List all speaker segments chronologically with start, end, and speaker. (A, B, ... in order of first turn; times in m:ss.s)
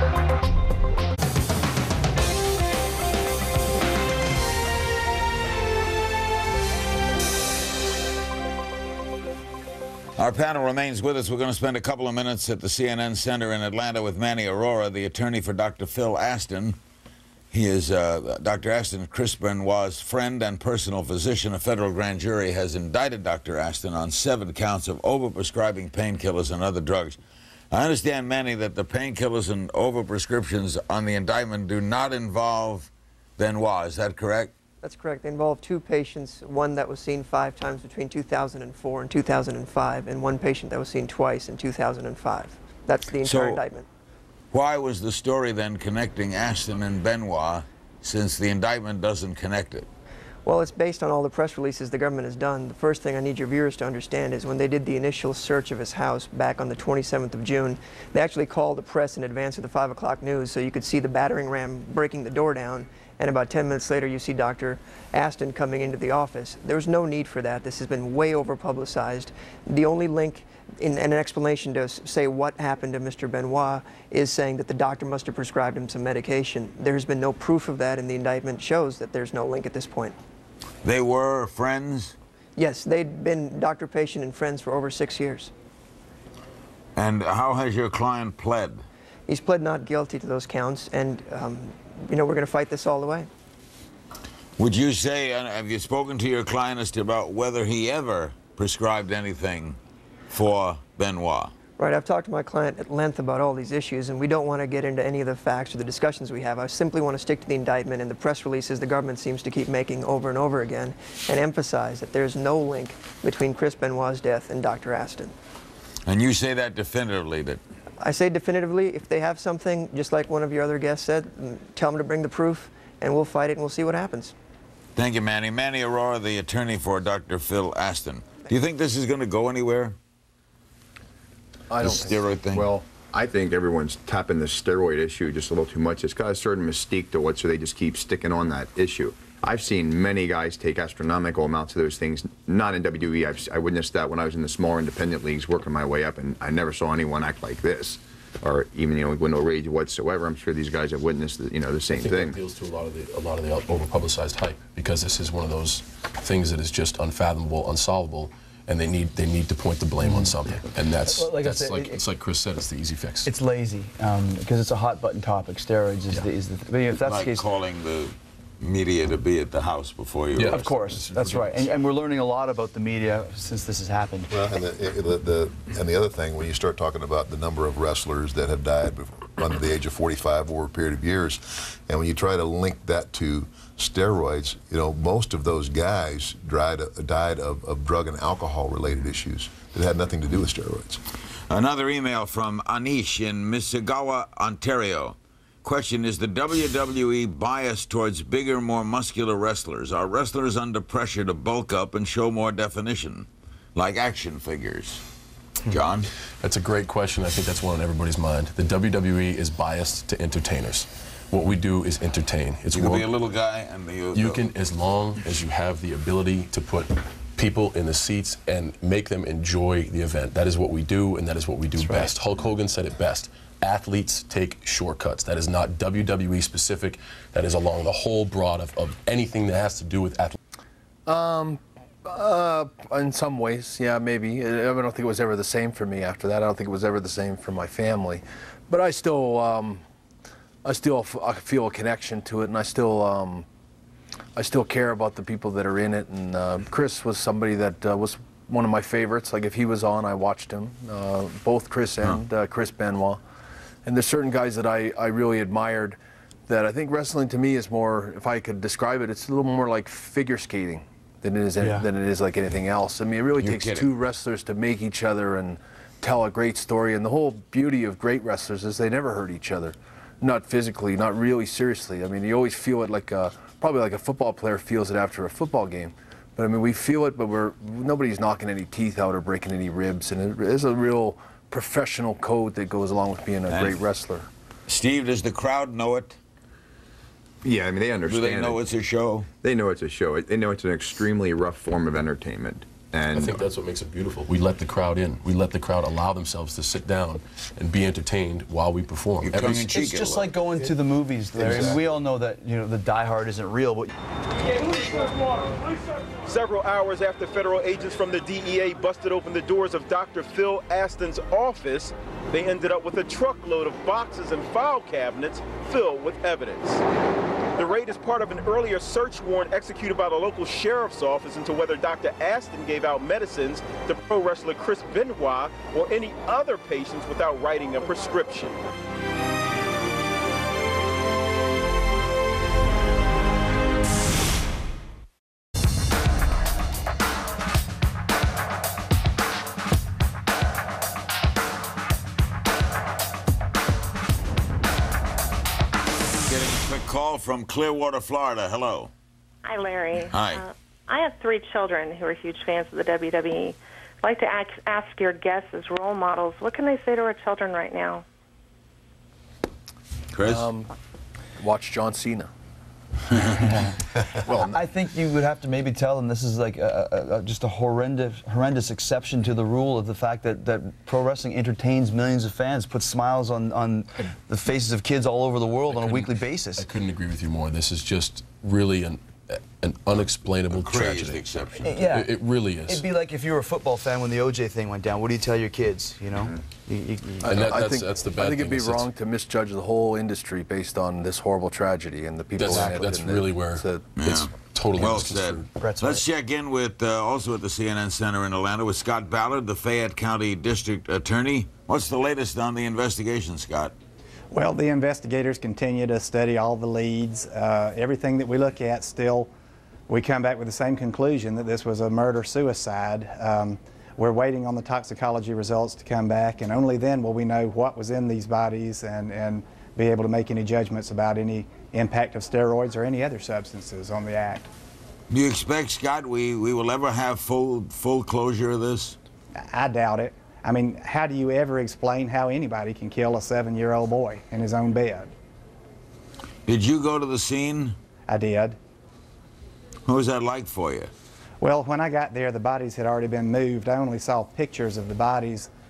0:10.2-0:16.8 A
0:17.5-0:27.2 A
0:27.7-0:34.5 A
0:34.8-0:43.9 B
0:43.2-0:43.6 A
0:44.5-0:49.9 A
0:50.4-1:20.2 B
1:20.8-1:22.2 A
1:22.6-1:25.5 B
1:27.0-1:28.8 A
1:29.3-1:33.3 B
1:34.6-1:39.8 A
1:40.3-1:41.5 A
1:41.8-1:55.3 B
1:56.0-1:57.6 A
1:58.0-2:04.3 B
2:05.0-2:10.0 A
2:11.7-2:12.2 C
2:11.8-2:12.7 A
2:12.5-2:32.4 D
2:32.0-2:43.3 E
2:40.0-2:40.4 F
2:41.0-2:42.0 F
2:43.2-2:47.4 F
2:47.0-2:50.7 A
2:50.4-2:51.6 E
2:50.5-2:54.3 F
2:54.3-3:11.0 G
3:11.5-3:25.0 A
3:25.7-3:26.1 A
3:26.4-3:33.1 E
3:32.7-3:34.4 A
3:34.1-3:50.4 E
3:41.8-3:42.1 F
3:51.1-3:59.8 C
4:00.6-4:03.4 C
4:04.4-4:13.2 C
4:13.8-4:16.0 C
4:16.5-4:44.3 C
4:21.6-4:21.9 F
4:23.4-4:23.9 A
4:43.5-4:43.8 A
4:44.7-4:46.2 A
4:47.4-4:48.6 D
4:48.1-4:49.3 A
4:49.4-4:53.5 D
4:53.1-4:59.7 E
4:59.2-5:00.3 A
4:59.7-5:03.9 F
5:01.4-5:01.8 A
5:06.2-5:16.8 H
5:17.5-5:28.6 H
5:46.2-5:48.9 A
5:49.4-5:58.0 I
5:50.1-5:50.4 A
6:00.1-6:00.5 A
6:00.2-6:00.7 C
6:01.4-6:02.3 C
6:03.4-6:03.7 F
6:04.2-6:16.6 F
6:15.7-6:22.8 E
6:20.5-6:21.8 A
6:21.6-6:27.4 F
6:27.2-6:33.9 C
6:27.2-6:28.9 E
6:32.4-6:35.5 E
6:34.0-6:43.7 A
6:35.6-6:36.0 F
6:44.3-6:49.3 J
6:49.9-7:04.5 J
7:05.1-7:09.0 A
7:09.4-7:15.1 J
7:16.4-7:17.8 A
7:18.1-7:18.6 J
7:19.8-7:20.9 A
7:21.4-7:25.5 J